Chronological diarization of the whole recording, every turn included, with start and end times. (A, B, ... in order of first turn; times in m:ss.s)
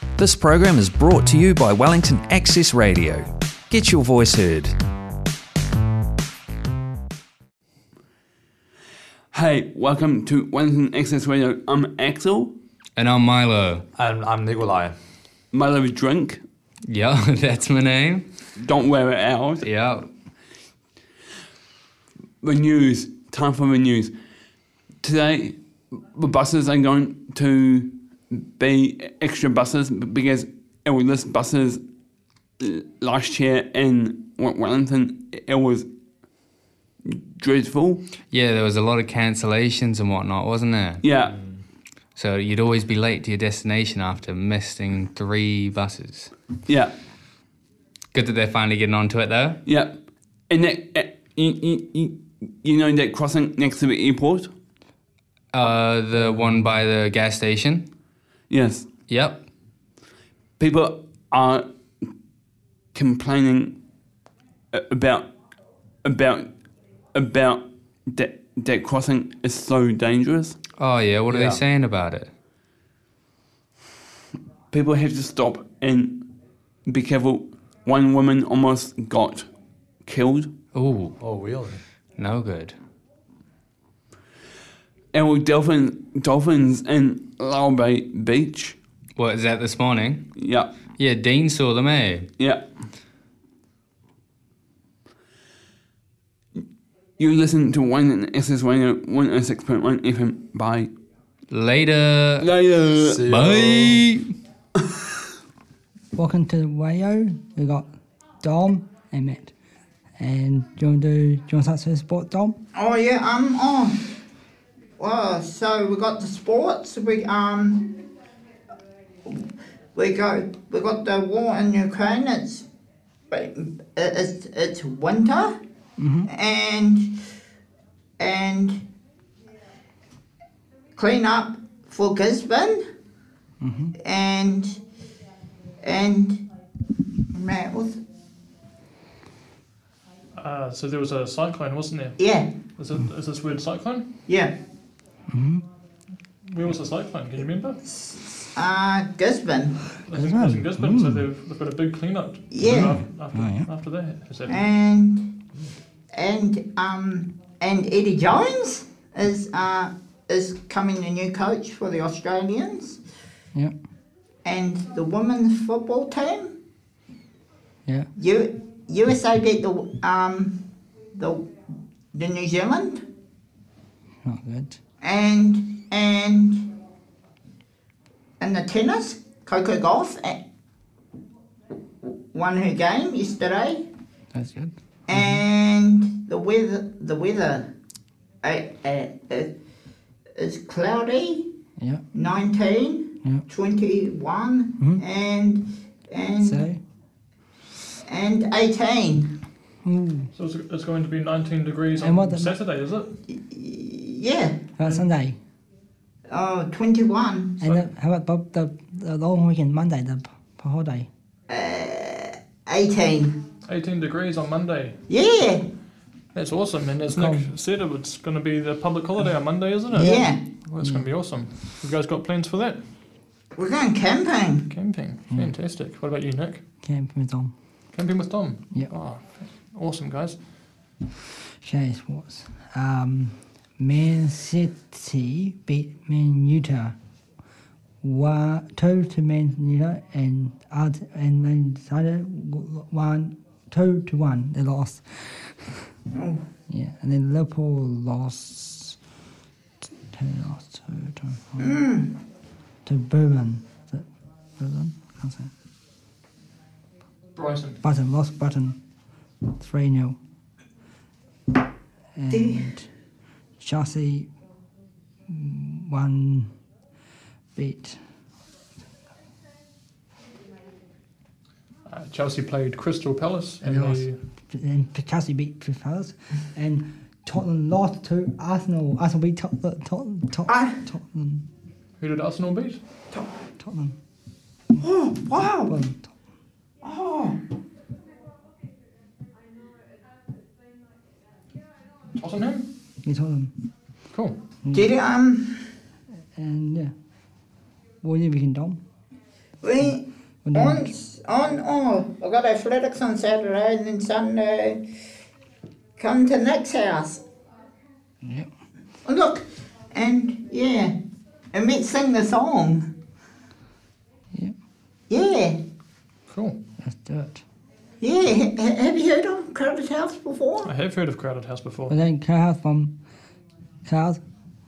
0:00.2-0:04.7 A
0:09.3-0:12.5 B
0:13.0-0:13.9 C
0:13.9-0:15.0 D
0:15.5-0:16.4 B
0:16.9-0:18.3 C
0:18.6-0:19.7 B
0:19.6-0:20.1 C
0:22.4-0:24.1 B
0:25.0-0:25.6 B
0:26.1-0:31.8 B
0:32.6-0:35.9 B
0:37.0-0:38.0 B
0:38.3-0:41.0 C
0:41.0-0:41.4 B
0:41.3-0:41.6 D
0:42.2-0:46.3 C
0:46.6-0:46.9 B
0:48.1-0:49.6 C
0:49.6-0:54.5 B
0:55.5-0:57.9 C
0:56.2-0:56.7 D
0:58.5-0:58.9 B
0:59.1-0:59.4 C
1:00.6-1:01.7 B
1:02.9-1:03.8 B
1:04.7-1:05.3 B
1:06.0-1:06.6 B
1:07.1-1:10.6 B
1:10.8-1:12.3 C
1:11.3-1:11.6 D
1:14.7-1:16.3 B
1:16.8-1:19.5 B
1:20.0-1:20.5 B
1:20.7-1:21.2 C
1:21.2-1:21.8 D
1:22.2-1:22.8 C
1:25.1-1:28.8 B
1:29.2-1:30.3 C
1:30.3-1:30.7 B
1:30.9-1:32.3 C
1:32.4-1:32.6 B
1:37.2-1:40.9 B
1:41.5-1:42.5 C
1:42.4-1:43.2 B
1:43.0-1:44.0 D
1:43.2-1:44.3 C
1:46.1-1:49.5 E
1:50.2-1:52.6 E
1:52.7-1:54.0 F
1:55.0-1:58.0 F
1:59.2-2:02.6 F
2:03.3-2:05.6 F
2:06.0-2:06.3 E
2:06.2-2:07.2 F
2:08.2-2:08.8 F
2:11.0-2:12.8 F
2:13.6-2:13.9 E
2:14.0-2:14.8 F
2:15.8-2:16.4 F
2:17.3-2:18.0 F
2:20.3-2:22.2 G
2:22.2-2:22.6 F
2:22.8-2:24.1 G
2:24.3-2:24.5 F
2:25.3-2:25.6 E
2:26.5-2:27.8 G
2:27.9-2:29.8 F
2:30.0-2:34.6 G
2:30.1-2:31.3 E
2:32.5-2:33.0 F
2:32.7-2:33.7 E
2:34.5-2:35.4 F
2:36.1-2:43.0 F
2:44.4-2:46.5 F
2:48.2-2:50.6 F
2:51.1-2:51.5 F
2:52.1-2:53.0 F
2:54.2-2:54.8 E
2:55.0-2:56.7 F
2:58.4-3:00.4 F
3:02.3-3:03.8 F
3:04.3-3:05.4 E
3:05.1-3:07.7 F
3:08.4-3:09.5 F
3:10.4-3:11.4 F
3:12.1-3:16.7 F
3:16.4-3:16.8 E
3:18.0-3:19.3 F
3:19.8-3:20.3 E
3:20.3-3:23.1 G
3:22.0-3:22.6 E
3:23.3-3:24.7 F
3:24.8-3:25.4 E
3:24.8-3:25.1 G
3:26.3-3:27.6 F
3:27.6-3:31.1 E
3:31.5-3:33.4 F
3:33.6-3:35.0 G
3:35.1-3:35.7 F
3:36.3-3:42.9 G
3:37.1-3:37.5 E
3:40.0-3:40.5 F
3:43.6-3:44.7 F
3:44.7-3:46.6 G
3:46.8-3:47.5 E
3:47.9-3:50.4 G
3:51.6-3:56.9 E
3:58.0-4:05.6 E
4:06.1-4:06.4 F
4:06.7-4:09.0 E
4:10.1-4:11.7 E
4:11.6-4:12.2 F
4:12.8-4:14.1 E
4:14.6-4:15.5 E
4:17.3-4:17.8 G
4:17.8-4:18.8 E
4:19.4-4:20.2 E
4:22.2-4:22.8 E
4:22.3-4:22.7 F
4:23.6-4:24.3 E
4:25.3-4:26.5 E
4:27.6-4:28.0 E
4:31.9-4:34.2 G
4:33.6-4:41.4 E
4:40.4-4:40.8 F
4:42.0-4:42.8 G
4:43.6-4:43.9 E
4:44.8-4:45.8 F
4:45.7-4:46.1 E
4:46.8-4:47.4 F
4:52.2-4:52.7 G
4:53.0-4:53.5 E
4:54.1-4:54.4 G
4:54.6-4:54.9 E
4:54.7-4:55.6 F
4:56.4-4:56.9 E
4:58.0-4:58.8 E
4:59.6-5:04.8 F
5:00.4-5:00.9 E
5:06.0-5:07.2 F
5:08.2-5:08.5 E
5:09.0-5:10.9 F
5:11.5-5:12.9 F
5:15.1-5:15.6 F
5:16.3-5:16.6 G
5:16.8-5:17.4 E
5:18.0-5:20.7 F
5:20.6-5:22.0 G
5:21.9-5:23.0 E
5:23.8-5:24.2 E